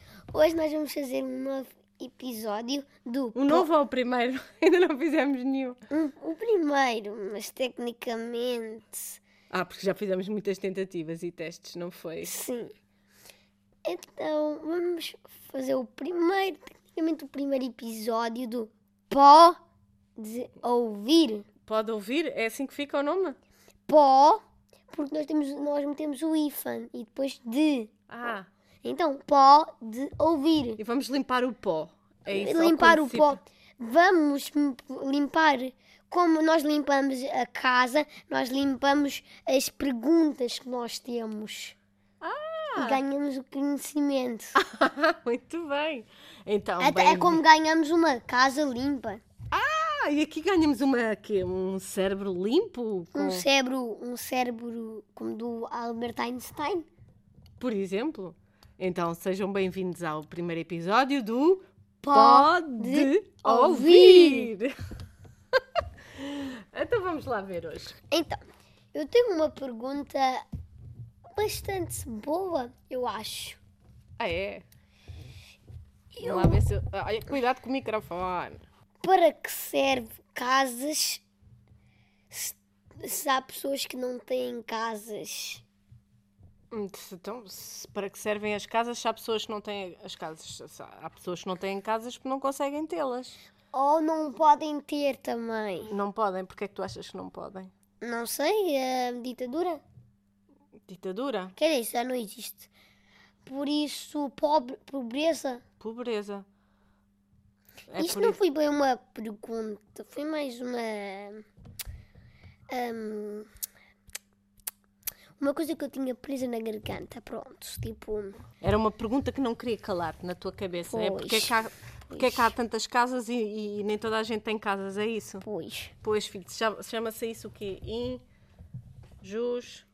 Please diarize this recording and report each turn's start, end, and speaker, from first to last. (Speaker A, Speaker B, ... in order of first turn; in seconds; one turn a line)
Speaker A: 0.3-3.7
Speaker B: 3.3-5.8
Speaker A: 5.9-9.2
Speaker B: 9.5-12.4
Speaker A: 12.2-12.7
Speaker A: 13.8-19.6
Speaker A: 20.2-21.4
Speaker B: 21.6-23.4
Speaker A: 23.9-27.9
Speaker B: 28.1-28.5
Speaker A: 28.8-30.8
Speaker B: 30.8-33.4
Speaker A: 32.3-41.7
Speaker B: 42.2-43.0
Speaker A: 42.8-44.6
Speaker B: 44.6-47.4
Speaker A: 46.8-49.2
Speaker B: 49.5-53.4
Speaker A: 53.1-56.9
Speaker B: 57.6-64.7
Speaker A: 62.0-64.5
Speaker B: 66.1-68.0
Speaker A: 68.1-68.4
Speaker A: 68.9-70.4
Speaker A: 71.3-73.6
Speaker B: 74.2-74.6
Speaker A: 76.1-76.6
Speaker B: 76.2-78.6
Speaker A: 79.0-81.2
Speaker A: 82.3-85.6
Speaker B: 86.7-93.4
Speaker A: 93.7-95.9
Speaker B: 95.8-97.7
Speaker A: 98.0-99.8
Speaker B: 100.9-101.5
Speaker A: 101.5-102.7
Speaker A: 103.4-105.6
Speaker B: 105.8-106.5
Speaker B: 107.9-108.4
Speaker A: 108.0-111.4
Speaker A: 112.7-113.5
Speaker A: 115.4-118.4
Speaker B: 118.6-125.5
Speaker A: 120.9-121.5
Speaker A: 122.1-122.5
Speaker A: 125.4-125.9
Speaker B: 126.0-128.2
Speaker B: 129.2-129.8